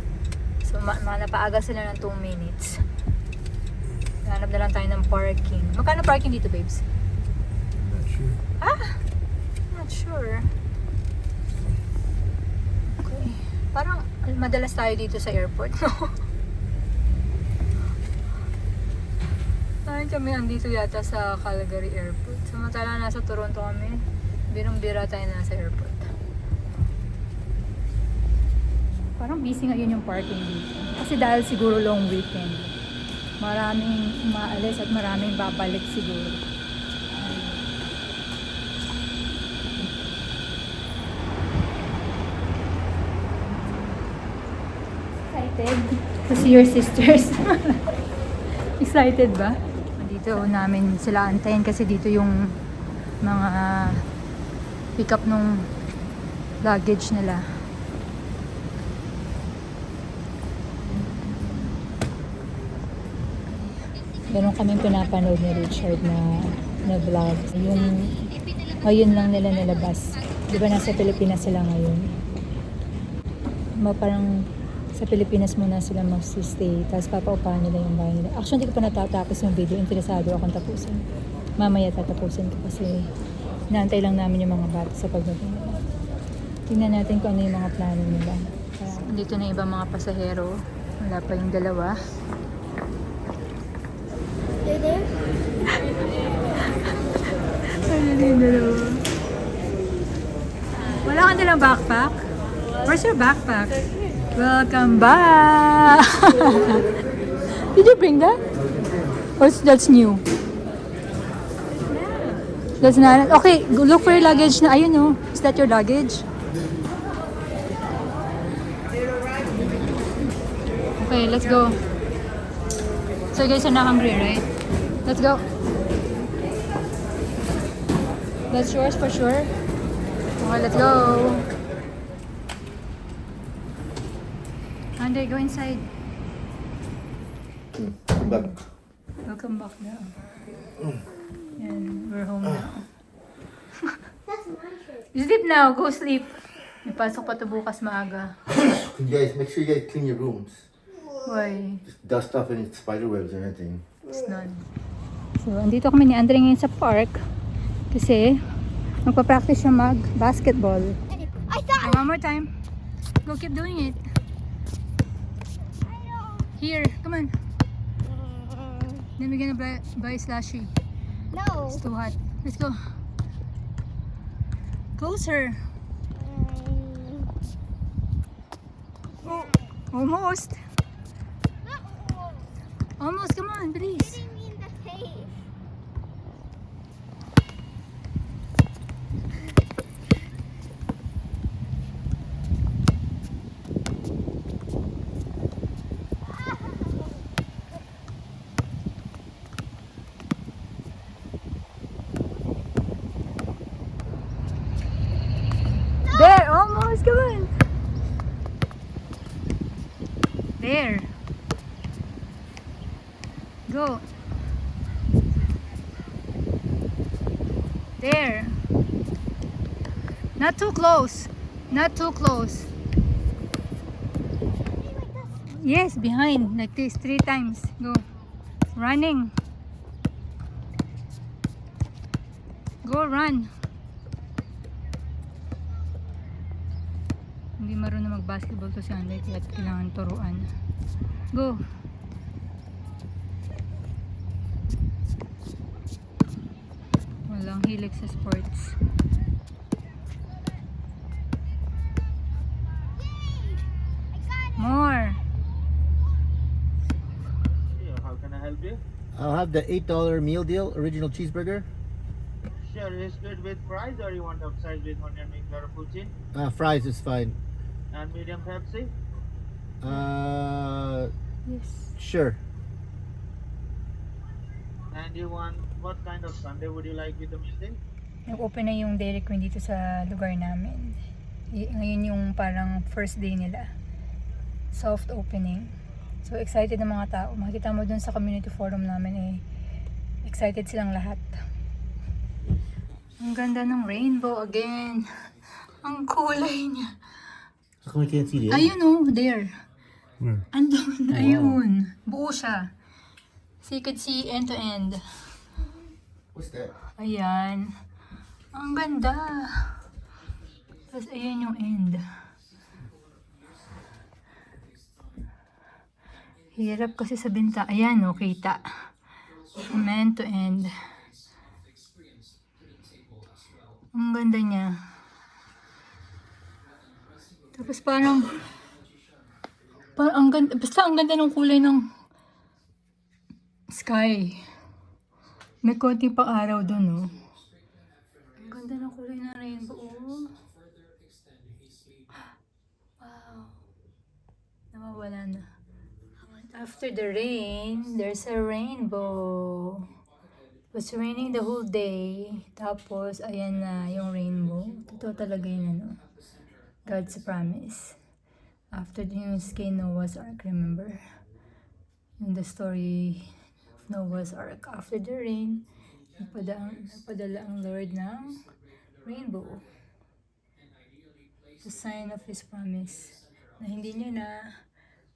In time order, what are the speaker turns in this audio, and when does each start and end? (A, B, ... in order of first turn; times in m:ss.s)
0:00.6-0:02.8 A
0:04.2-0:06.9 A
0:07.9-0:08.4 B
0:08.6-0:09.0 A
0:09.7-0:10.5 A
0:12.9-0:16.2 A
0:19.8-0:26.1 A
0:29.2-0:32.7 A
0:33.4-0:36.4 A
0:37.2-0:37.6 A
0:45.2-0:47.9 A
0:48.6-0:52.6 A
0:53.2-0:54.0 A
0:55.0-0:55.7 A
0:56.6-0:57.4 A
1:04.3-1:12.2 A
1:13.8-1:21.0 A
1:21.6-1:23.1 A
1:23.7-1:25.8 A
1:26.7-1:32.0 A
1:34.7-1:35.1 C
1:36.6-1:39.0 A
1:41.0-1:42.2 A
1:42.8-1:43.8 A
1:44.3-1:47.0 A
1:47.6-1:48.4 A
1:48.6-1:49.1 B
1:49.4-1:50.2 A
1:51.9-1:56.2 A
1:52.8-1:53.2 B
2:01.0-2:01.8 A
2:03.3-2:04.5 A
2:05.0-2:05.4 A
2:08.5-2:09.5 A
2:10.4-2:11.5 A
2:15.0-2:15.9 A
2:17.7-2:18.6 B
2:18.2-2:18.6 A
2:19.2-2:20.2 A
2:21.6-2:22.9 A
2:25.0-2:28.4 A
2:28.5-2:30.7 B
2:31.2-2:31.8 A
2:31.9-2:33.9 B
2:34.1-2:34.6 A
2:35.4-2:37.2 A
2:37.9-2:38.4 A
2:39.0-2:41.0 A
2:41.2-2:41.8 C
2:41.7-2:42.5 A
2:43.2-2:44.0 A
2:45.9-2:46.5 C
2:46.6-2:47.3 A
2:48.3-2:49.0 C
2:49.2-2:50.7 A
2:51.3-2:51.6 C
2:51.4-2:52.8 A
2:55.0-2:55.6 A
2:56.2-2:57.3 C
2:59.2-3:00.6 A
3:01.7-3:02.4 C
3:03.0-3:04.2 A
3:04.2-3:05.4 C
3:26.0-3:27.5 A
3:30.6-3:31.1 A
3:33.7-3:34.0 A
3:38.0-3:38.6 A
3:40.4-3:42.7 A
3:44.7-3:45.4 C
3:45.5-3:48.0 A
3:48.7-3:49.3 A
3:52.8-3:53.5 A
3:57.6-4:00.5 A
4:01.3-4:01.6 A
4:07.3-4:08.8 A
4:13.0-4:13.6 C
4:14.2-4:14.5 C
4:14.5-4:15.2 A
4:17.7-4:18.8 D
4:19.1-4:21.7 B
4:22.6-4:26.1 D
4:26.3-4:27.4 B
4:27.9-4:28.9 D
4:29.8-4:31.1 B
4:31.5-4:31.9 A
4:32.0-4:32.4 B
4:34.9-4:37.8 D
4:38.3-4:41.0 A
4:41.5-4:43.7 A
4:44.7-4:49.4 A
4:50.2-4:51.4 A
4:53.2-4:55.1 A
4:55.6-4:56.9 A
4:57.8-4:58.7 B
4:58.4-4:59.6 A
5:00.5-5:02.7 A
5:01.1-5:01.6 B
5:03.6-5:05.0 A
5:06.3-5:06.7 B
5:07.0-5:07.8 A
5:08.5-5:09.8 A
5:10.9-5:12.0 A
5:16.6-5:18.6 A
5:19.6-5:20.7 A
5:23.9-5:24.8 A
5:27.5-5:28.5 A
5:29.8-5:31.8 A
5:33.7-5:34.4 A
5:35.6-5:37.2 A
5:38.4-5:40.3 A
5:43.0-5:43.6 A
5:44.7-5:45.5 A
5:46.2-5:49.9 A
5:50.7-5:56.0 A
5:56.8-5:58.0 A
5:58.7-6:01.0 A
6:02.2-6:03.3 A
6:03.9-6:05.6 A
6:06.2-6:08.5 A
6:09.0-6:09.7 A
6:11.6-6:14.6 A